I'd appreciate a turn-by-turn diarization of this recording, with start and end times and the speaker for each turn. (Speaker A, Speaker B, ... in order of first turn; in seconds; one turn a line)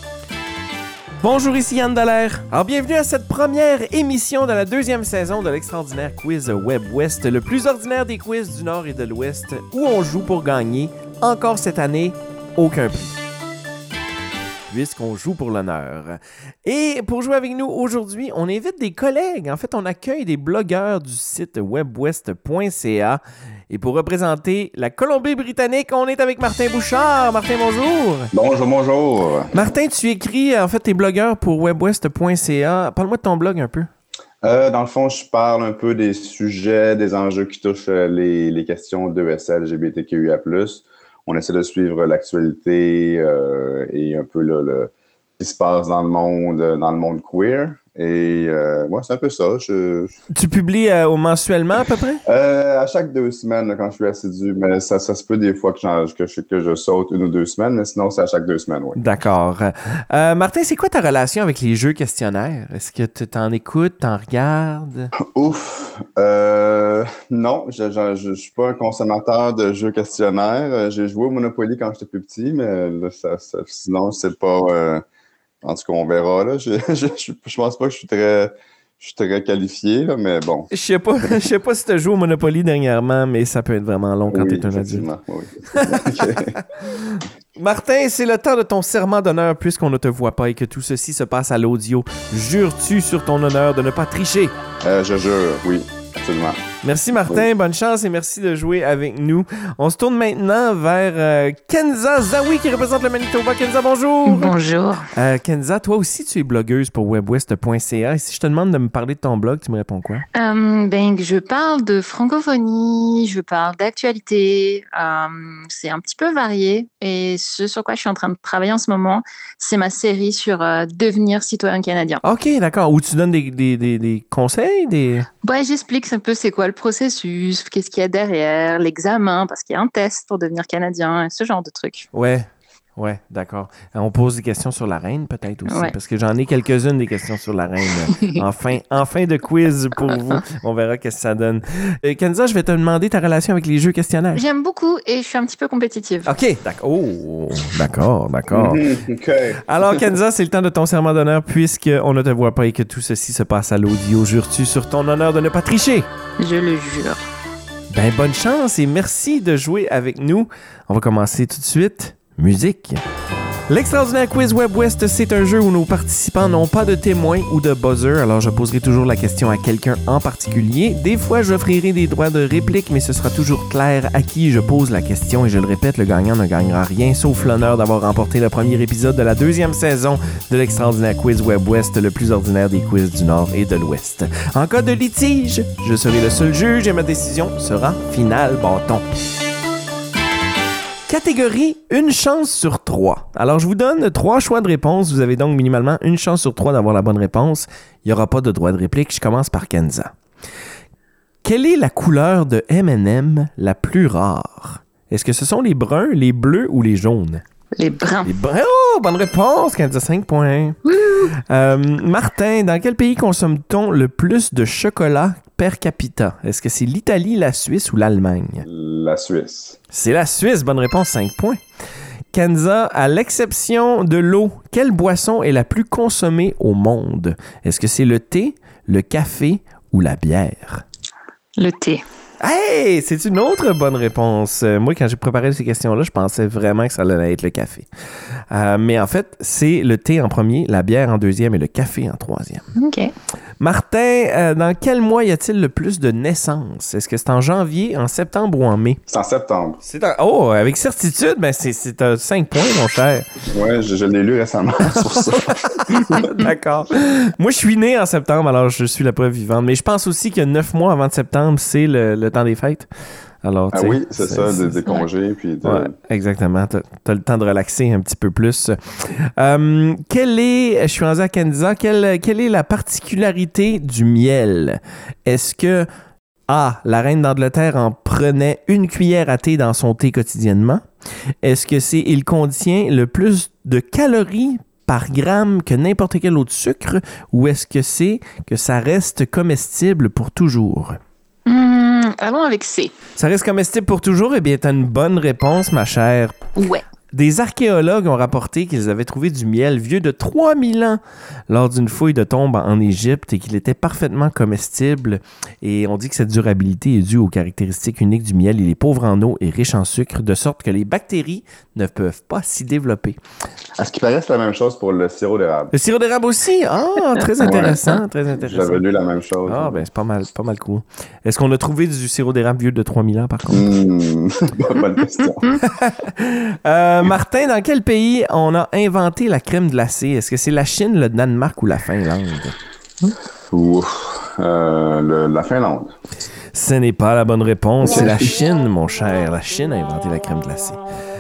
Speaker A: 1.2-13.2
Speaker A: 14.7-28.3
Speaker B: 28.3-29.5
Speaker A: 29.5-33.9
Speaker B: 34.4-50.1
Speaker A: 50.3-52.2
Speaker B: 52.2-59.0
Speaker A: 59.0-65.1
Speaker B: 65.2-75.0
Speaker B: 75.6-80.7
Speaker A: 80.7-85.1
Speaker B: 84.3-86.6
Speaker A: 85.7-94.5
Speaker B: 94.8-96.6
Speaker A: 96.8-104.5
Speaker C: 104.2-105.1
Speaker A: 105.1-110.2
Speaker C: 110.3-122.2
Speaker A: 122.2-125.3
Speaker C: 125.4-132.1
Speaker A: 132.1-144.4
Speaker C: 135.7-135.9
Speaker C: 138.1-138.4
Speaker C: 144.3-146.3
Speaker A: 146.2-148.9
Speaker B: 148.5-150.1
Speaker A: 149.6-156.1
Speaker C: 156.4-157.2
Speaker A: 157.9-163.0
Speaker A: 163.7-189.0
Speaker A: 191.1-200.1
Speaker A: 201.4-207.4
Speaker C: 207.8-208.3
Speaker A: 208.2-210.8
Speaker C: 210.9-211.3
Speaker A: 211.3-218.7
Speaker B: 218.6-219.8
Speaker A: 219.9-221.6
Speaker A: 222.3-230.8
Speaker C: 231.6-232.0
Speaker A: 232.4-237.9
Speaker A: 238.5-242.7
Speaker C: 242.8-243.1
Speaker A: 243.6-249.0
Speaker B: 249.1-249.8
Speaker A: 249.8-253.3
Speaker B: 253.5-256.3
Speaker A: 254.9-262.9
Speaker A: 263.4-264.8
Speaker B: 263.7-265.9
Speaker A: 265.6-275.9
Speaker A: 276.5-280.8
Speaker A: 281.4-291.0
Speaker C: 291.4-292.9
Speaker A: 293.1-296.4
Speaker C: 296.6-296.8
Speaker A: 297.1-313.2
Speaker B: 313.8-315.7
Speaker A: 315.7-318.8
Speaker B: 317.4-319.8
Speaker A: 319.4-323.7
Speaker B: 323.5-325.5
Speaker A: 325.6-332.6
Speaker B: 333.5-335.9
Speaker A: 336.5-340.8
Speaker B: 337.8-338.3